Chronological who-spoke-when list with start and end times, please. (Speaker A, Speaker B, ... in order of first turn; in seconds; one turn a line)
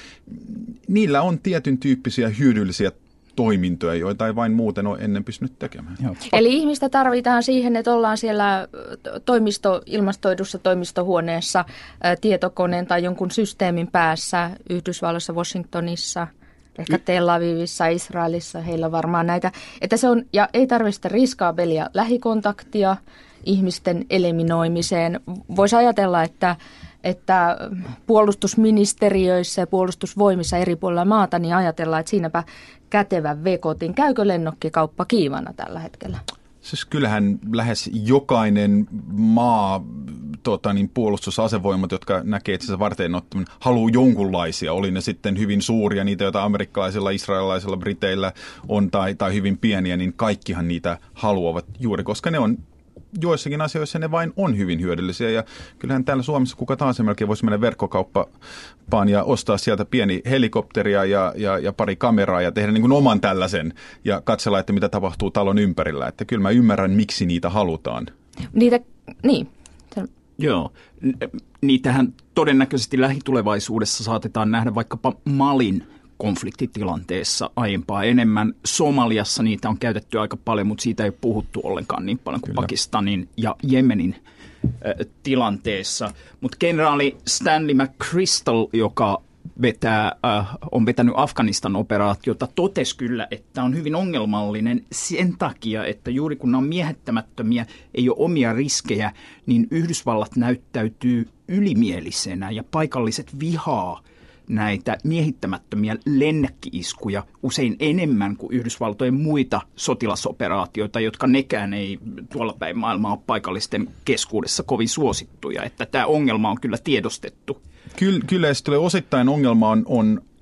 Speaker A: 0.3-6.0
Speaker B: 6.2-36.2
Speaker A: 36.6-52.6
Speaker A: 53.1-58.3
Speaker A: 58.9-68.1
Speaker B: 68.5-70.1
Speaker C: 70.4-84.2
Speaker C: 84.8-117.6
Speaker A: 117.9-120.2